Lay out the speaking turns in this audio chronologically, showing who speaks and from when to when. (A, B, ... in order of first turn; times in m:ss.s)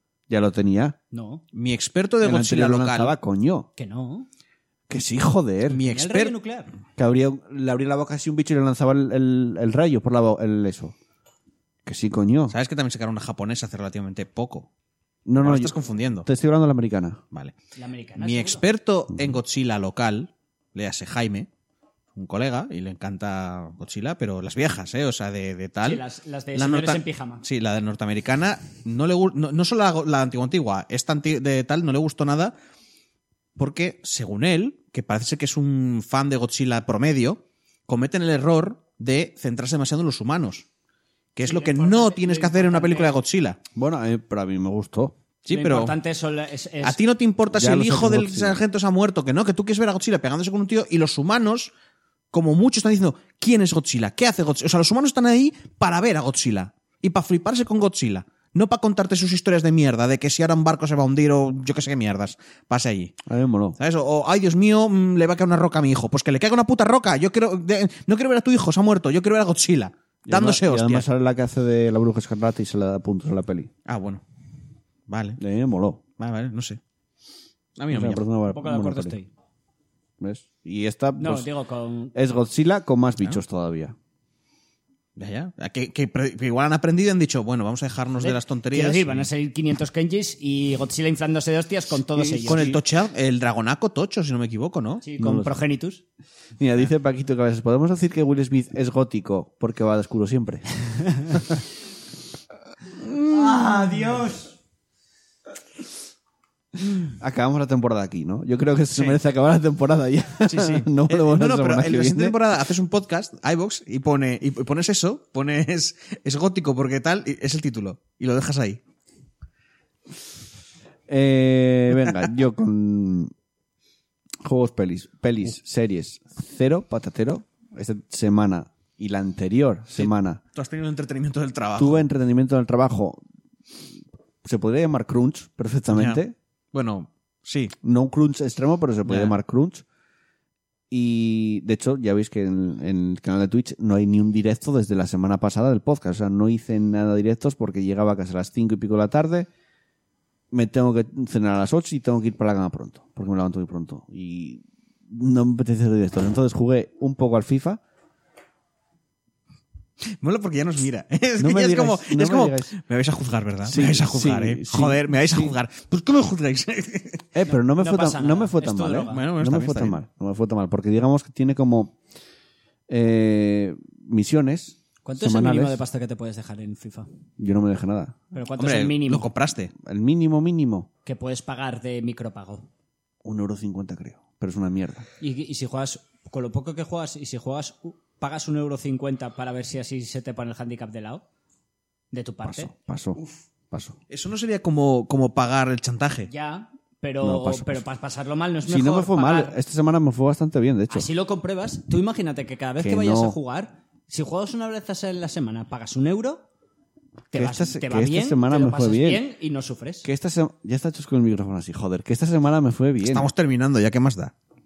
0:00.3-0:01.0 A
0:01.1-0:01.4 B
0:01.5-0:03.1 C
0:02.2-0:03.7 A
0:03.8-0:04.3 B
0:04.9-0:05.8 A
0:05.7-0:06.3 C
0:05.8-0:06.7 B
0:07.0-0:10.9 A
0:11.8-0:12.6 A
0:12.5-0:14.7 C
0:15.2-0:17.2 A
0:15.4-0:16.3 C
0:17.8-0:18.6 B
0:18.2-0:21.5 C
0:22.1-0:26.0 C
0:25.8-0:27.4 B
0:26.5-0:32.5 C
0:33.6-0:40.6 C
0:41.3-0:43.6 C
0:41.4-0:43.2 B
0:43.7-0:45.2 A
0:45.4-0:46.0 C
0:45.5-0:47.0 B
0:46.8-0:51.7 C
0:47.5-0:48.6 A
0:52.3-1:03.2 C
1:03.2-1:03.8 A
1:03.8-1:11.0 C
1:10.3-1:13.7 A
1:13.8-1:14.2 C
1:15.1-1:15.4 C
1:15.4-1:16.0 A
1:16.2-1:16.8 C
1:17.8-1:18.2 C
1:17.9-1:19.2 A
1:18.5-1:19.3 B
1:20.2-1:21.5 A
1:21.2-1:22.1 B
1:22.1-1:23.9 A
1:25.2-1:29.3 C
1:28.2-1:32.7 B
1:32.2-1:32.8 A
1:32.4-1:35.0 C
1:35.0-1:36.0 B
1:35.2-1:35.5 A
1:36.6-1:40.6 A
1:41.3-1:41.6 A
1:43.1-1:44.6 B
1:47.2-1:52.4 A
1:50.4-1:58.8 C
2:01.1-2:03.3 A
2:04.4-2:10.4 A
2:10.0-2:12.0 C
2:11.8-2:13.2 A
2:14.4-2:16.4 A
2:15.9-2:16.2 C
2:16.7-2:17.7 C
2:17.8-2:19.8 A
2:19.0-2:19.4 C
2:20.9-2:29.5 A
2:30.5-2:37.8 A
2:40.1-2:47.3 C
2:41.4-2:42.7 A
2:43.6-2:45.5 A
2:47.3-2:52.0 A
2:47.5-2:49.2 B
2:49.1-2:50.0 C
2:52.9-2:55.8 A
2:55.0-2:57.1 B
2:57.4-2:58.2 A
2:58.3-2:59.3 B
2:58.6-2:59.7 C
2:59.7-3:00.9 A
3:01.0-3:02.7 B
3:03.2-3:05.1 A
3:05.2-3:11.2 B
3:12.1-3:12.7 B
3:12.4-3:14.0 A
3:14.1-3:16.3 C
3:16.3-3:19.6 B
3:17.2-3:17.8 A
3:18.6-3:21.1 A
3:20.9-3:26.4 B
3:22.8-3:23.4 A
3:27.3-3:30.1 B
3:27.3-3:29.2 A
3:30.0-3:33.3 A
3:33.0-3:34.3 C